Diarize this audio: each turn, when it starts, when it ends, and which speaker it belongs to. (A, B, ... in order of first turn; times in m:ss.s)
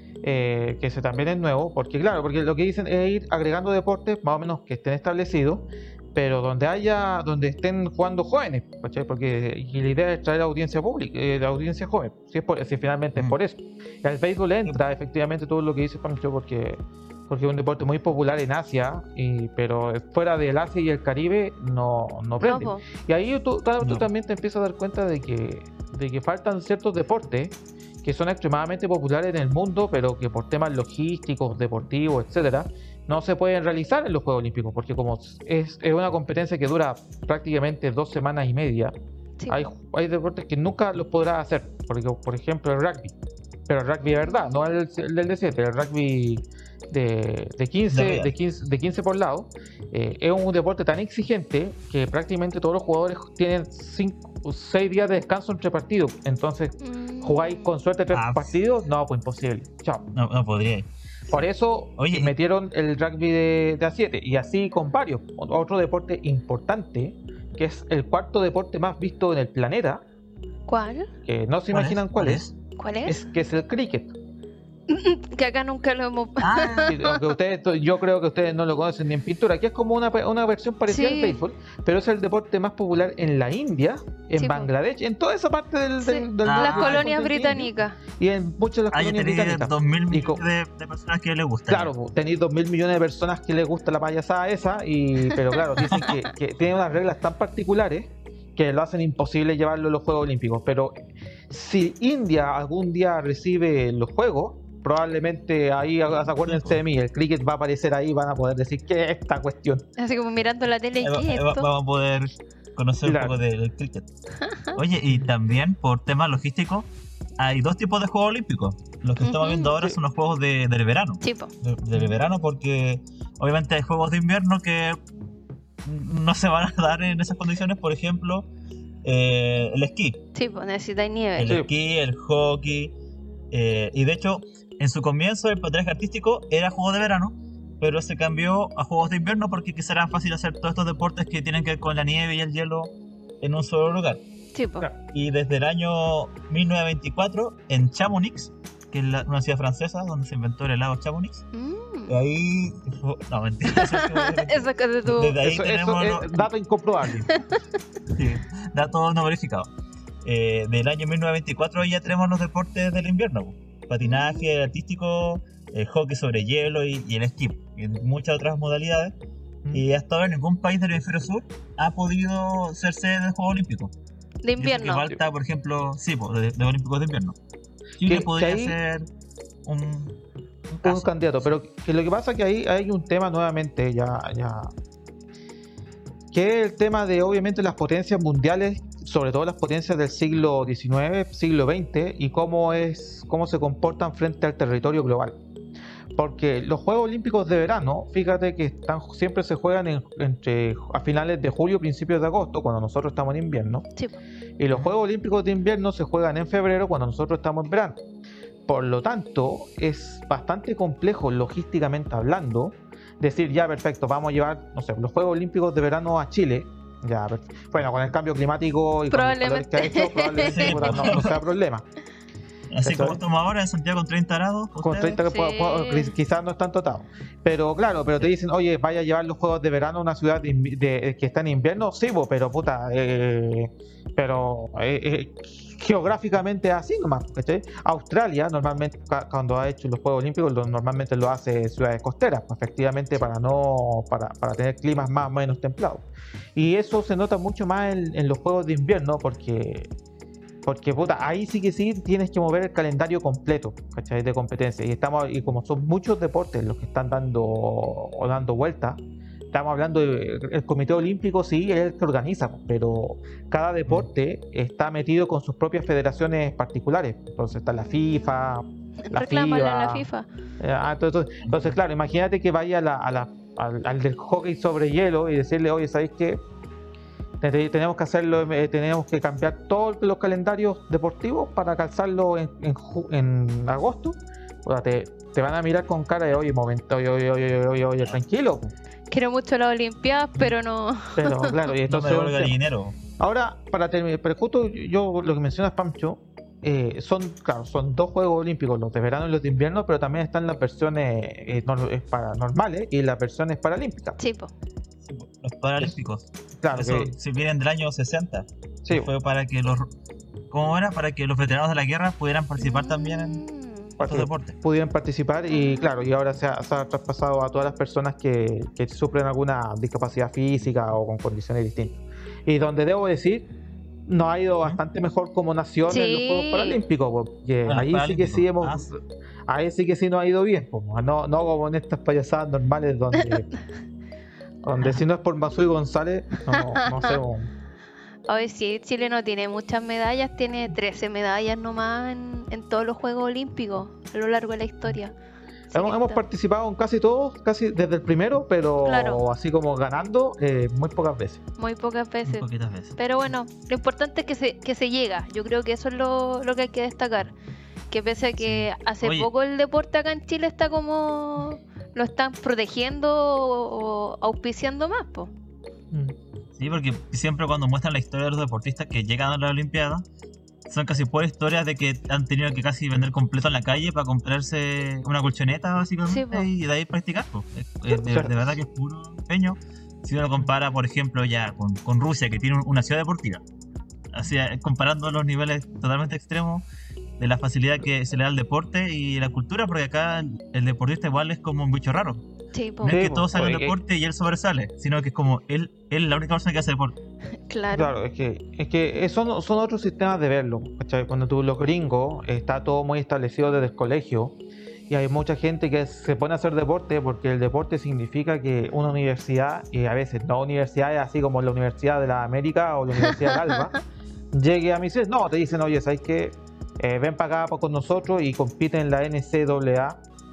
0:00.2-0:39.0 A
0:22.4-0:22.8 B
0:23.8-0:24.1 C
0:39.4-0:39.7 B
0:39.5-0:43.2 A
0:43.7-1:00.1 A
0:47.9-0:48.3 C
0:56.8-0:57.7 B
0:58.1-0:58.5 C
1:00.1-1:01.5 C
1:01.3-1:10.0 A
1:02.0-1:02.3 C
1:10.7-1:11.1 B
1:11.2-1:12.5 A
1:11.7-1:12.5 C
1:12.8-1:13.3 B
1:13.0-1:14.2 A
1:14.9-1:17.2 B
1:16.4-1:17.0 C
1:16.9-1:30.4 A
1:20.9-1:21.4 B
1:24.4-1:24.7 B
1:26.0-1:28.0 B
1:26.4-1:27.1 C
1:28.9-1:31.9 C
1:31.7-1:41.0 A
1:35.8-1:36.1 C
1:35.9-1:36.2 B
1:41.5-1:49.8 A
1:46.4-1:46.8 C
1:50.0-1:51.7 B
1:51.0-1:54.1 C
1:53.0-1:53.4 A
1:54.4-1:54.8 B
1:54.7-2:05.0 C
1:59.2-1:59.8 B
2:01.2-2:01.5 B
2:05.8-2:08.5 C
2:09.0-2:10.2 C
2:10.4-2:11.6 B
2:11.4-2:13.0 C
2:13.5-2:24.2 C
2:24.5-2:24.9 B
2:25.1-2:31.4 C
2:31.5-2:32.2 B
2:32.1-2:37.3 C
2:33.7-2:35.4 B
2:35.4-2:37.2 A
2:38.1-2:39.7 C
2:40.2-2:49.2 C
2:44.0-2:44.5 B
2:49.7-2:53.9 C
2:54.4-2:55.2 B
2:54.6-2:57.4 C
2:58.0-2:59.1 C
2:58.0-2:58.8 A
2:59.6-3:00.2 C
3:00.7-3:01.5 C
3:00.8-3:04.7 A
3:06.3-3:15.4 A
3:16.2-3:23.9 A
3:24.6-3:28.0 A
3:28.7-3:41.9 A
3:39.1-3:41.3 B
3:40.4-3:41.3 C
3:42.7-3:45.2 C
3:42.8-3:43.2 A
3:44.8-4:09.9 A
3:45.2-3:46.1 B
4:10.6-4:19.0 A
4:19.5-4:30.1 A
4:29.0-4:30.3 B
4:30.6-4:36.4 A
4:31.5-4:31.8 C
4:37.4-4:48.7 A
4:49.1-4:51.6 B
4:51.2-4:52.6 A
4:51.9-4:53.0 C
4:53.2-5:04.2 A
5:04.2-5:04.5 B
5:05.0-5:09.9 C
5:06.6-5:07.1 A
5:08.8-5:09.1 A
5:10.5-5:13.4 C
5:12.6-5:14.0 B
5:14.0-5:23.5 A
5:14.0-5:14.6 C
5:15.5-5:15.8 B
5:24.1-5:33.5 A
5:25.9-5:26.8 B
5:27.7-5:28.8 C
5:34.6-5:37.5 A
5:36.5-5:37.2 B
5:38.3-5:45.1 B
5:45.7-5:46.2 B
5:45.7-5:51.4 A
5:48.8-5:49.2 B
5:51.6-5:52.5 B
5:52.2-5:52.9 C
5:53.0-5:57.3 B
5:57.9-6:05.3 B
5:58.4-5:59.3 C
6:06.6-6:10.0 C
6:10.7-6:23.4 C
6:16.1-6:16.5 B
6:17.9-6:18.6 A
6:24.1-6:26.6 C
6:27.2-6:32.2 C
6:32.5-6:33.0 B
6:32.8-6:37.0 C
6:32.9-6:33.8 A
6:37.5-6:37.9 B
6:37.7-6:44.4 A
6:44.9-6:53.7 A
6:53.0-6:53.7 B
6:54.3-7:00.0 A